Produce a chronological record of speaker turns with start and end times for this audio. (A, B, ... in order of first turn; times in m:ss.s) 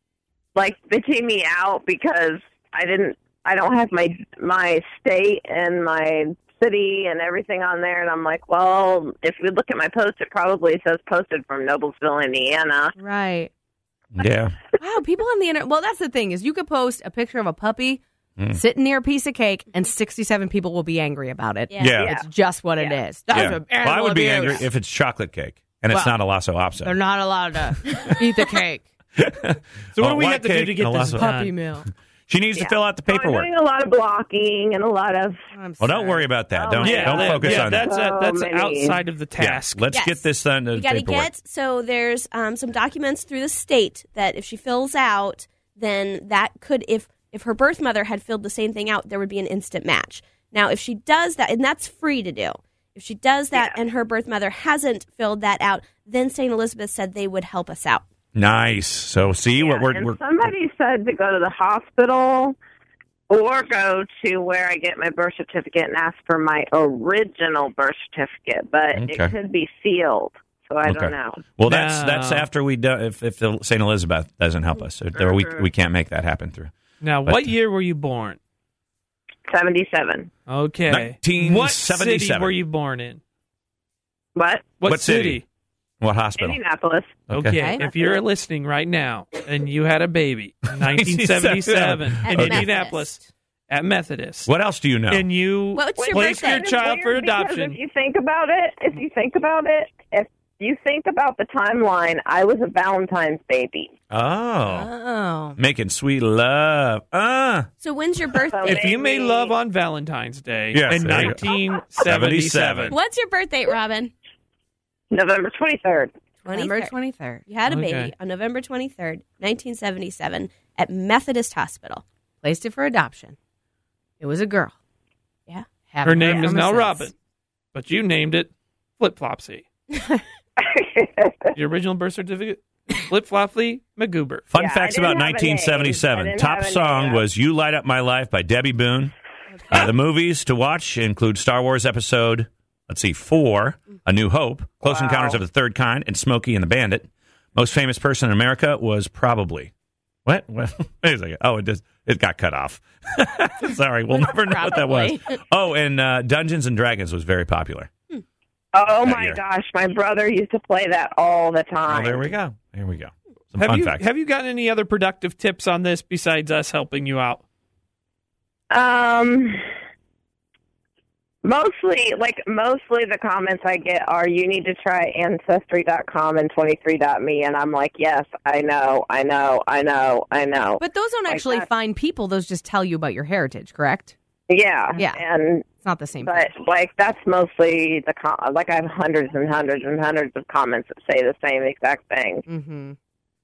0:00.6-0:12.9 A
0:13.0-0:13.5 B
0:14.1-0:14.6 C
0:14.8-0:24.6 B
0:21.7-0:22.0 D
0:21.8-0:22.1 C
0:22.0-0:22.3 A
0:23.3-0:26.9 C
0:25.9-0:26.1 B
0:26.8-0:28.8 B
0:27.6-0:28.1 C
0:29.2-0:31.3 C
0:30.0-0:31.6 E
0:31.2-0:31.9 B
0:32.3-0:33.5 C
0:32.6-0:35.4 A
0:35.5-0:36.2 B
0:35.8-0:37.9 C
0:36.5-0:39.0 A
0:36.8-0:39.8 E
0:39.4-0:41.3 C
0:39.9-0:58.0 D
0:53.5-0:53.8 A
0:58.3-1:00.2 C
0:59.6-1:02.5 A
1:03.3-1:11.4 A
1:08.9-1:09.3 C
1:10.8-1:16.7 C
1:11.6-1:12.5 E
1:15.2-1:15.6 A
1:17.0-1:18.4 E
1:17.2-1:17.5 C
1:19.5-1:20.3 A
1:20.5-1:23.2 E
1:20.9-1:22.5 C
1:24.4-1:24.7 A
1:24.8-1:25.4 E
1:24.9-1:25.4 C
1:26.0-1:26.6 C
1:26.4-1:27.2 A
1:27.3-1:27.6 C
1:27.3-1:34.5 E
1:30.9-1:32.7 C
1:32.2-1:33.2 D
1:34.4-1:35.3 C
1:35.1-1:37.8 E
1:35.7-1:36.6 D
1:36.0-1:43.9 A
1:44.1-1:44.9 C
1:44.7-1:45.6 B
1:45.6-1:47.7 C
1:47.8-1:48.9 D
1:48.5-1:49.5 A
1:48.6-1:53.0 E
1:50.7-1:51.4 C
1:52.0-1:53.0 C
1:52.9-1:54.1 D
1:55.1-1:56.1 A
1:56.4-1:56.9 D
1:56.5-1:57.4 B
1:57.5-2:02.0 D
1:57.7-1:58.1 E
2:02.4-2:03.4 B
2:04.2-2:04.7 B
2:05.9-2:07.1 B
2:06.0-2:07.1 E
2:07.7-2:09.6 E
2:10.6-2:11.5 A
2:11.6-2:14.4 E
2:14.5-2:19.1 C
2:14.5-2:17.2 A
2:19.7-2:29.7 C
2:24.8-2:25.4 A
2:30.2-2:37.9 C
2:34.4-2:35.1 B
2:38.7-2:42.3 A
2:39.0-2:39.4 C
2:41.9-2:44.0 C
2:43.6-2:47.4 E
2:48.7-2:49.6 A
2:51.4-3:01.7 A
3:00.8-3:04.1 B
3:04.5-3:05.7 A
3:05.0-3:05.2 B
3:05.7-3:06.5 B
3:06.2-3:12.4 A
3:12.5-3:13.0 B